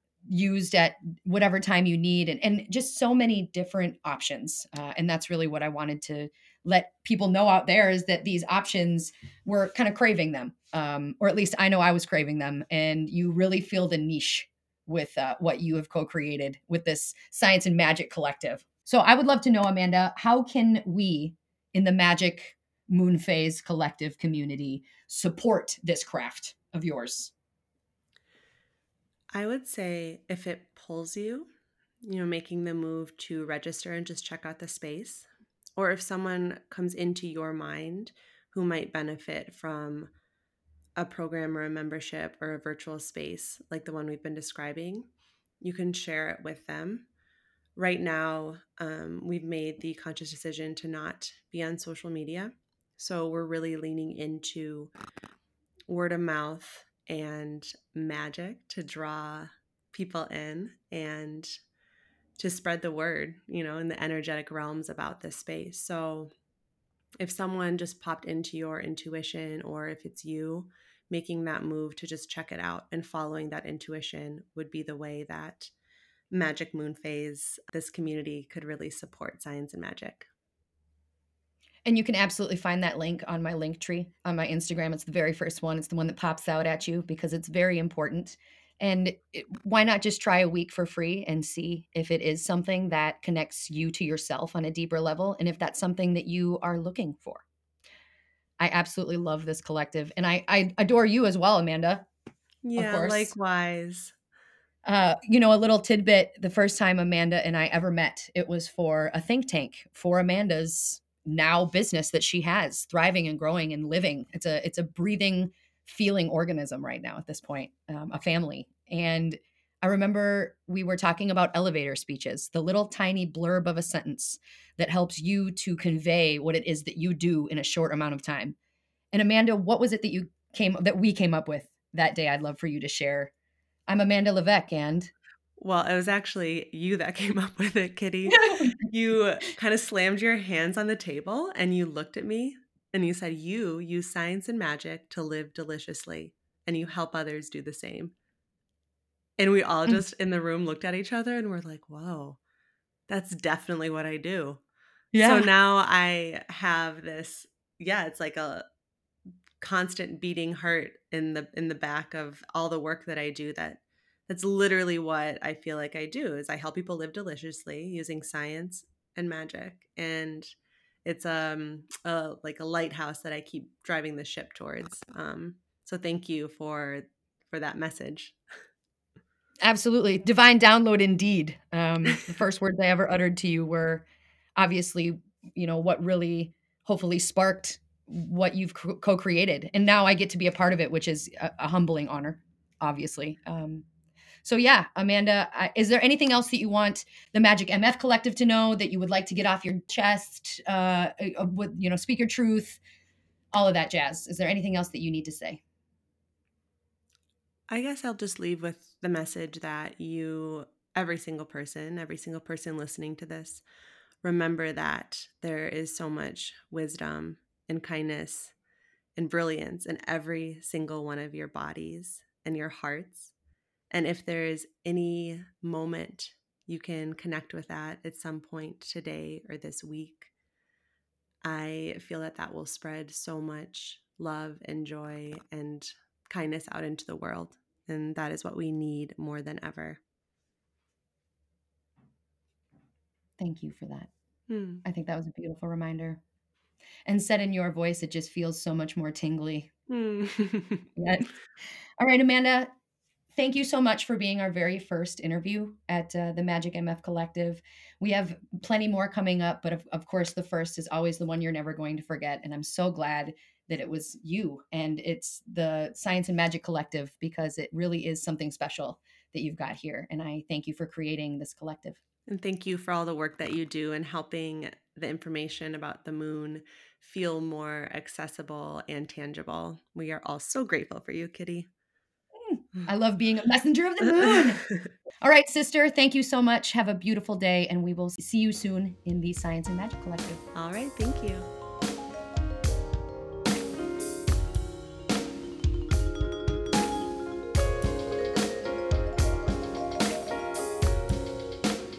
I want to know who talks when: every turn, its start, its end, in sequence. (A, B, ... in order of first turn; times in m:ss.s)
0:00.3-0:27.3 A
0:29.3-0:31.5 B
0:32.0-0:40.1 B
0:41.0-0:45.1 B
0:45.6-0:47.1 B
0:47.8-0:54.9 B
0:55.9-1:01.5 B
1:02.4-1:06.3 B
1:07.2-1:15.7 B
1:16.3-1:20.3 B
1:21.9-1:37.4 A
1:38.6-1:42.1 A
1:42.6-1:44.2 B
1:42.8-1:43.3 A
1:44.8-2:08.6 A
2:09.1-2:13.3 A
2:13.9-2:15.1 A
2:15.6-2:28.2 B
2:18.3-2:18.8 A
2:29.4-2:32.4 B
2:33.1-2:34.6 B
2:35.1-2:35.5 A
2:35.2-2:38.6 B
2:39.6-2:50.5 B
2:51.0-2:58.4 B
2:59.6-3:04.0 A
3:04.6-3:13.8 A
3:14.4-3:22.8 A
3:23.5-3:25.6 A
3:27.7-3:33.6 B
3:34.2-3:38.5 B
3:39.2-3:43.3 B
3:43.9-3:50.3 B
3:51.4-4:00.0 B
4:03.4-4:04.1 A
4:04.5-4:04.8 B
4:04.8-4:06.2 A
4:07.1-4:09.7 A
4:09.9-4:10.9 B
4:11.0-4:11.3 A
4:12.0-4:12.7 A
4:13.4-4:32.0 A
4:32.3-4:41.7 B
4:42.4-4:44.6 A
4:44.2-4:44.7 B
4:45.2-4:50.4 A
4:50.6-4:51.5 B